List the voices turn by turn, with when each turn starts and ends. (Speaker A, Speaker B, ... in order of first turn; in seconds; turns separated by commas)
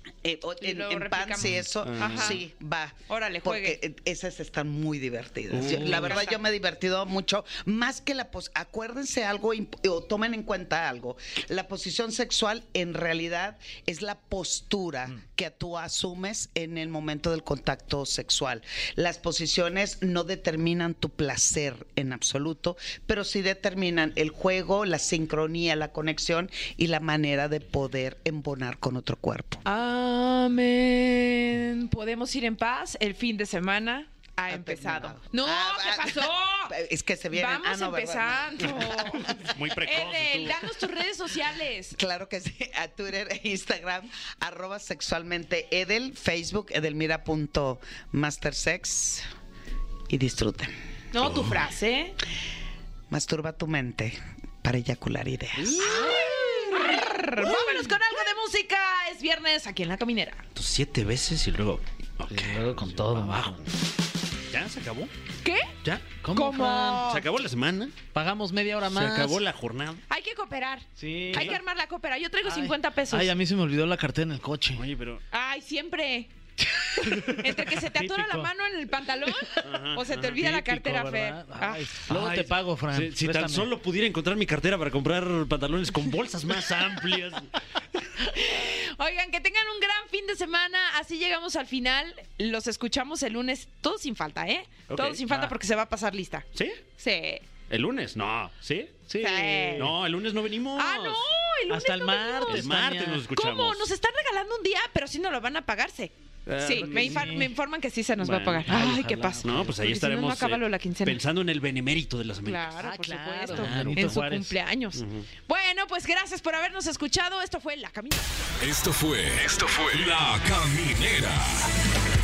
Speaker A: 0.2-29.6, Speaker B: 0.6-2.4, Speaker C: 1.6-2.4, Speaker B: 3.1-3.8, Speaker D: 5.6-6.2, Speaker B: 5.7-6.4, Speaker B: 29.6-36.8, Speaker A: 34.5-39.3, Speaker B: 37.3-42.0, Speaker C: 39.3-40.7, Speaker A: 42.0-49.3, Speaker A: 50.1-50.7, Speaker B: 51.1-52.2, Speaker C: 51.2-51.6, Speaker A: 53.1-55.8, Speaker B: 55.6-60.4, Speaker C: 60.5-63.4, Speaker D: 62.3-63.7, Speaker C: 64.5-65.1, Speaker B: 65.4-65.7, Speaker C: 65.8-66.1, Speaker D: 66.2-67.1, Speaker B: 66.3-67.2, Speaker C: 67.0-68.0, Speaker D: 68.1-69.4, Speaker C: 68.9-70.0, Speaker B: 70.1-73.3, Speaker D: 71.0-71.6, Speaker C: 71.3-71.6, Speaker D: 72.4-74.8, Speaker C: 74.8-75.2, Speaker B: 75.3-76.3, Speaker D: 76.8-78.5, Speaker B: 77.0-81.9, Speaker C: 79.6-80.3, Speaker D: 80.2-83.7, Speaker C: 82.1-87.5, Speaker B: 88.2-97.5, Speaker C: 94.9-95.5, Speaker C: 96.5-96.8, Speaker C: 97.7-99.0, Speaker D: 99.1-99.8, Speaker B: 99.2-100.0, Speaker A: 99.2-99.7, Speaker C: 99.8-101.2, Speaker B: 100.8-102.7, Speaker D: 101.7-103.2, Speaker C: 102.5-103.9, Speaker B: 103.3-111.2, Speaker C: 106.5-107.4, Speaker D: 106.7-107.5, Speaker C: 108.2-108.7, Speaker D: 108.7-109.8, Speaker C: 109.4-112.7, Speaker B: 112.5-118.3, Speaker D: 112.8-114.6, Speaker C: 113.5-114.0, Speaker C: 115.0-115.3, Speaker E: 118.6-121.7